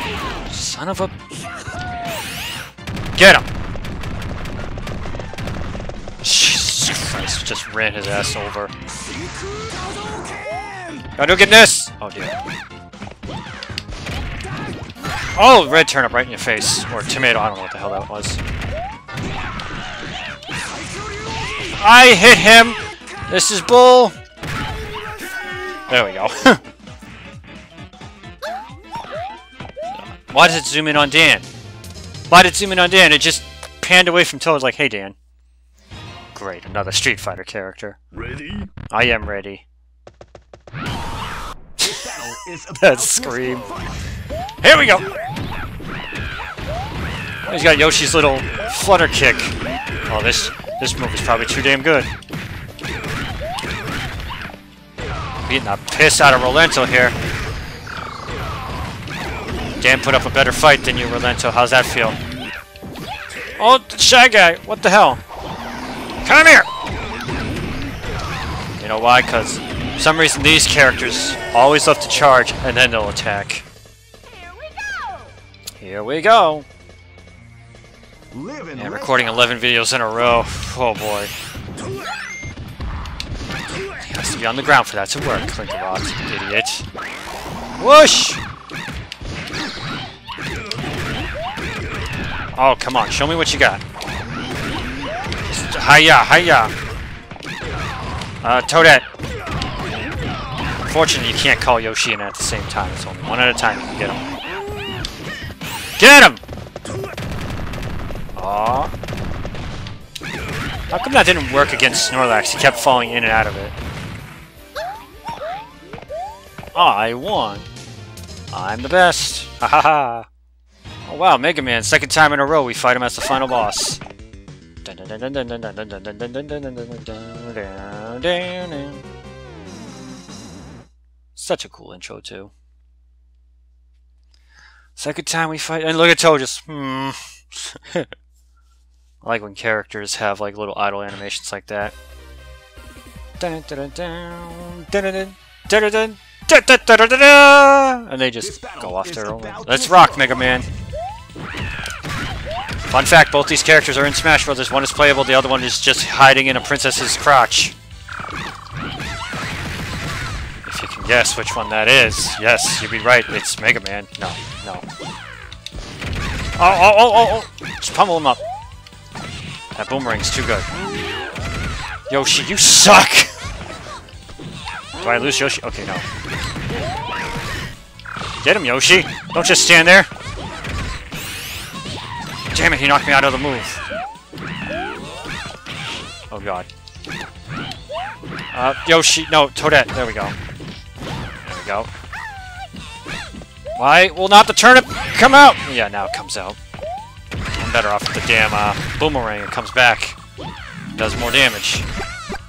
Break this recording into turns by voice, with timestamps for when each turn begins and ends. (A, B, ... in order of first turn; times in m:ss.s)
0:00.4-0:01.1 A
0:03.1-0:03.5 A
0:06.2-0:08.7 A
0:09.4-0:10.5 B
0:11.2-0:12.4 A
0:15.4-0:18.4 A
0:21.6-0:24.2 A
0:25.9-0:26.6 A
0:30.0-0:31.5 A
0:32.3-0:35.2 A
0:36.3-0:38.0 A
0:38.9-0:39.6 A
0:41.8-0:42.9 B
0:41.8-0:43.7 A
0:44.6-0:45.1 A
0:47.4-0:52.1 A
0:55.4-0:57.1 A
0:59.8-1:02.2 A
1:03.6-1:05.2 A
1:06.2-1:06.7 A
1:08.8-1:13.6 A
1:15.8-1:16.7 A
1:18.3-1:18.7 B
1:18.7-1:21.3 A
1:23.9-1:26.8 A
1:27.8-1:28.4 A
1:32.6-1:33.8 A
1:35.5-1:36.7 A
1:38.4-1:39.0 A
1:40.8-1:44.2 A
1:46.0-1:46.4 A
1:48.4-1:48.9 A
1:50.9-1:53.7 A
1:56.7-1:57.7 A
1:58.5-2:00.3 A
2:01.0-2:04.0 A
2:04.8-2:09.0 A
2:11.3-2:12.5 A
2:15.0-2:18.1 A
2:19.2-2:21.9 A
2:23.4-2:30.7 A
2:28.6-2:29.7 B
2:32.9-2:37.7 A
2:40.6-2:44.8 A
2:46.6-2:48.4 A
2:49.7-2:50.7 A
2:52.1-2:53.4 A
2:55.0-2:56.0 A
2:58.4-3:00.1 A
3:02.5-3:03.8 A
3:06.3-3:06.7 A
3:08.5-3:10.4 A
3:11.4-3:11.9 A
3:13.8-3:16.6 A
3:17.6-3:20.2 A
3:21.0-3:21.9 A